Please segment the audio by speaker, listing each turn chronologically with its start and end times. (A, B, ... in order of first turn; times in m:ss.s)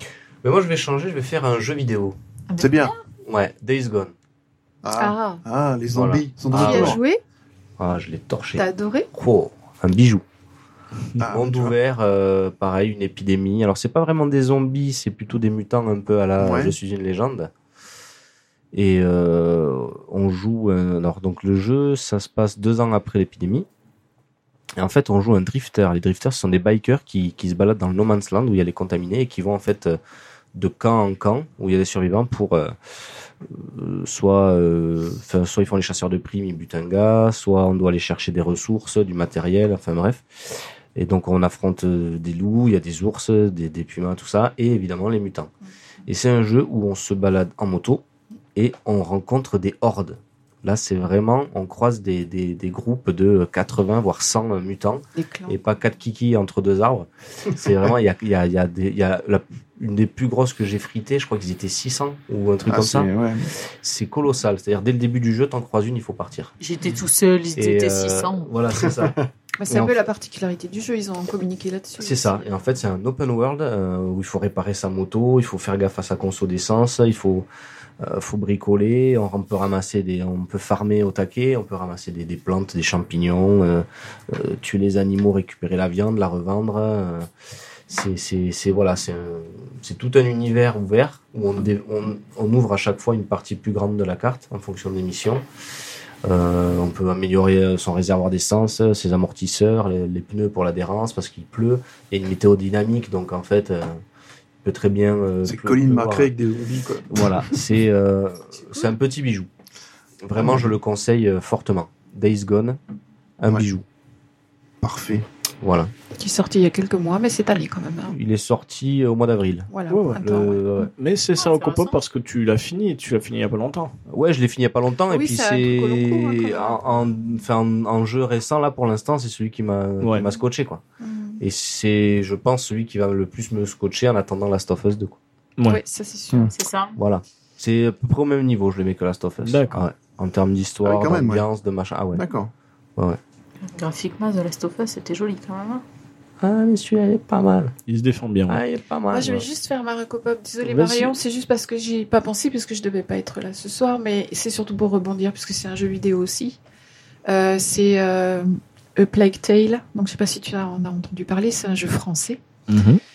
0:00.4-0:02.2 A
0:02.5-0:03.0 B
0:02.6-0:02.9 C
0:03.2-0:04.1 A
0:04.8-0:07.0 C
0:05.0-0:05.4 D
0:05.9-0:07.0 A
0:06.5-0:07.2 D
0:07.8-0:10.2 A
0:08.6-0:09.1 D
0:11.2-0:11.7 C
0:11.2-0:17.5 A
0:16.4-0:16.7 C
0:18.7-0:23.7 A
0:24.8-0:30.0 A
0:30.5-0:32.7 A
0:33.4-0:45.5 A
0:46.1-0:48.0 A
0:48.6-1:03.1 A
0:55.1-0:55.6 D
1:02.7-1:03.5 C
1:03.8-1:06.5 A
1:06.6-1:08.5 B
1:07.5-1:10.0 A
1:09.6-1:12.4 D
1:12.0-1:17.4 A
1:18.0-1:27.3 A
1:27.9-1:35.4 A
1:36.2-1:44.0 A
1:44.6-1:46.3 A
1:45.4-1:47.3 C
1:47.1-1:49.5 A
1:50.2-1:52.8 A
1:50.4-1:50.7 C
1:53.4-1:53.8 A
1:54.8-1:55.2 C
1:55.6-1:55.9 A
1:56.2-1:58.1 D
1:58.1-2:00.9 A
1:59.7-2:00.6 D
1:59.9-2:00.2 E
2:01.0-2:03.9 E
2:01.4-2:02.0 B
2:04.1-2:10.8 A
2:05.1-2:07.2 D
2:10.0-2:10.3 E
2:11.0-2:11.4 D
2:11.4-2:15.2 A
2:15.6-2:16.5 D
2:16.5-2:16.9 B
2:17.0-2:22.2 A
2:19.4-2:19.8 E
2:20.8-2:21.4 C
2:22.1-2:22.5 C
2:23.7-2:25.8 B
2:26.4-2:27.7 A
2:27.9-2:28.6 E
2:28.5-2:29.4 A
2:29.1-2:36.6 D
2:30.6-2:31.2 E
2:37.2-2:42.4 D
2:42.7-2:43.0 E